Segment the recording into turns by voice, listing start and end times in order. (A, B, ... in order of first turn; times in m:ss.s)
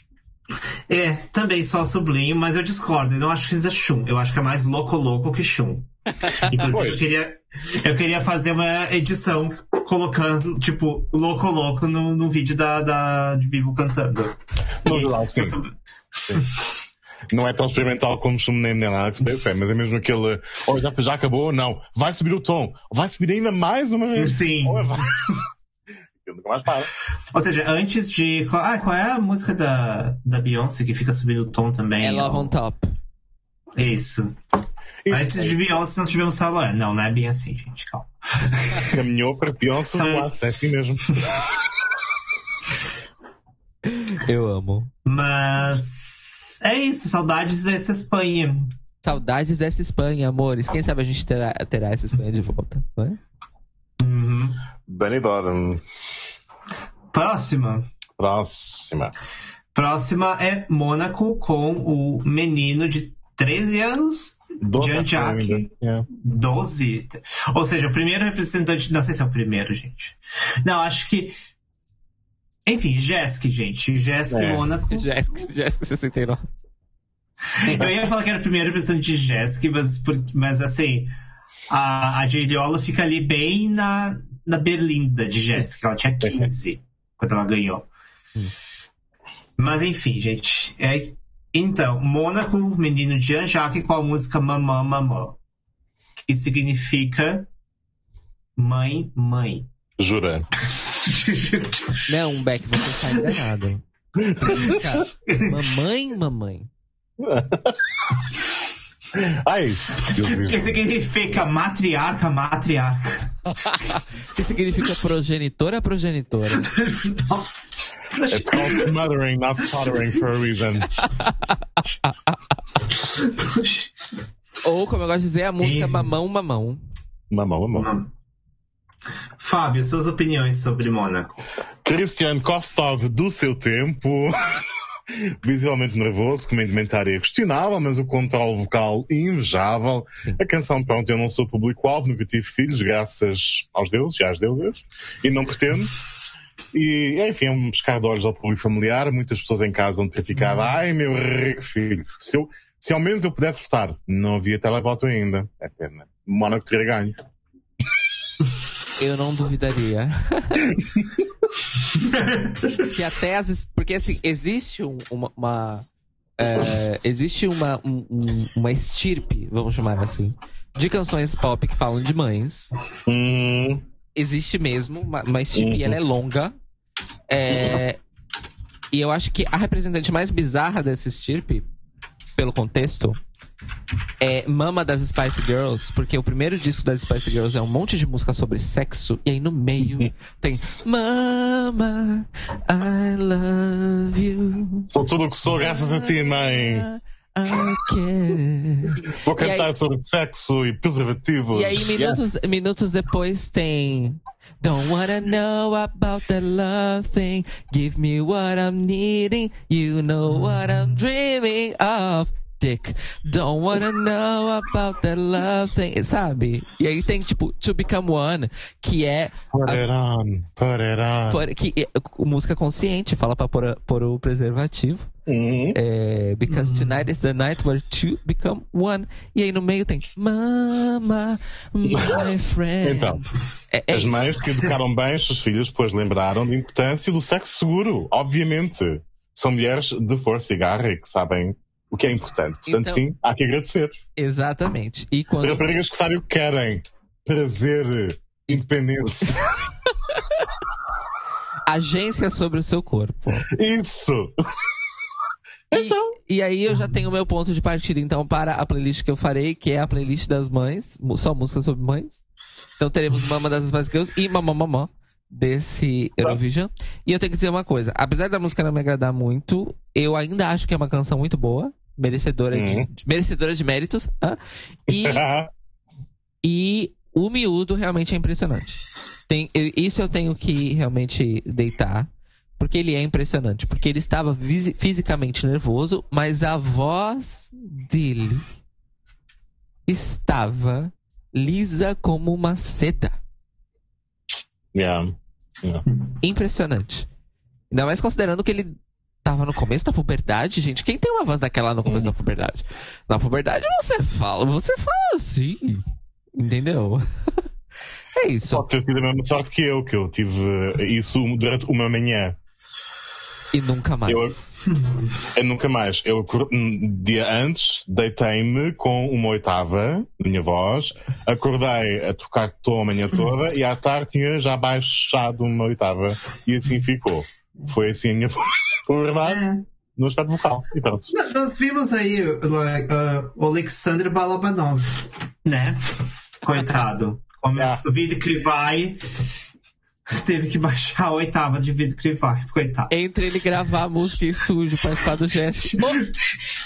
0:00.9-0:05.9 A
0:06.2-0:06.5 B
0:06.4-0:07.0 C
0:06.4-0:16.7 A
0:14.8-0:15.6 C
0:17.3-0:25.4 C
0:24.2-0:25.4 A
0:26.2-0:26.9 C
0:27.3-0:32.5 A
0:32.0-0:32.9 B
0:33.8-0:34.4 A
0:35.0-0:35.6 C
0:35.1-0:38.9 A
0:38.8-0:41.2 C
0:39.9-0:40.3 A
0:43.9-0:44.9 B
0:45.0-0:48.7 A
0:49.0-0:53.2 B
0:54.0-0:54.6 A
0:54.8-0:55.8 C
0:57.1-0:57.9 A
0:58.2-0:59.1 C
0:59.7-1:11.3 A
1:04.6-1:06.1 C
1:12.6-1:15.0 A
1:14.3-1:14.7 C
1:14.9-1:16.5 B
1:17.6-1:21.1 A
1:17.6-1:17.9 C
1:21.7-1:27.9 A
1:26.2-1:26.5 C
1:29.6-1:35.4 A
1:36.3-1:37.5 A
1:38.6-1:39.7 A
1:40.0-1:40.5 C
1:40.8-1:42.0 A
1:42.1-1:46.7 B
1:44.2-1:44.8 C
1:47.2-1:48.1 C
1:49.1-1:50.8 C
1:50.1-1:53.3 A
1:53.6-1:56.7 B
1:56.6-1:57.6 A
1:58.1-1:58.9 A
1:58.3-2:00.9 C
2:00.9-2:02.5 B
2:03.2-2:03.9 A
2:04.6-2:06.8 B
2:05.6-2:06.1 A
2:07.3-2:07.9 C
2:07.7-2:08.1 A
2:09.4-2:11.4 A
2:11.8-2:14.5 C
2:15.1-2:25.9 C
2:20.2-2:20.4 B
2:26.7-2:37.2 C
2:39.0-2:40.7 B
2:42.0-2:42.7 A
2:42.8-2:45.8 B
2:46.4-2:52.7 B
2:53.0-2:53.8 C
2:54.1-2:56.5 B
2:55.5-2:56.0 C
2:57.3-2:58.0 B
2:58.9-3:01.7 B
3:02.4-3:03.2 B
3:04.2-3:14.9 B
3:14.9-3:16.9 C
3:15.5-3:19.7 B
3:19.1-3:22.2 C
3:21.5-3:39.8 B
3:39.5-3:41.4 C
3:41.3-3:45.1 B
3:45.3-3:45.8 C
3:45.7-3:54.5 B
3:46.5-3:47.0 A
3:51.9-3:52.3 C
3:52.8-3:53.2 C
3:53.9-4:04.0 C
4:02.7-4:03.0 B
4:04.2-4:05.8 B
4:05.4-4:09.5 C
4:11.7-4:13.5 B
4:13.5-4:14.3 C
4:15.7-4:22.2 B
4:15.7-4:16.0 C
4:22.8-4:35.2 B
4:32.5-4:32.9 C
4:34.9-4:35.5 C
4:36.4-4:48.5 B
4:49.9-4:53.2 B
4:54.7-4:55.8 C
4:56.2-4:57.1 B
4:57.7-5:05.8 B
5:01.8-5:02.1 C
5:06.4-5:07.4 B
5:08.1-5:08.6 B
5:08.5-5:12.4 C
5:13.5-5:14.7 B
5:14.1-5:14.3 C
5:15.3-5:29.4 C
5:29.2-5:29.6 A
5:30.0-5:31.1 C
5:31.1-5:39.0 A
5:37.6-5:37.8 C
5:40.1-5:42.9 A
5:42.9-5:46.1 B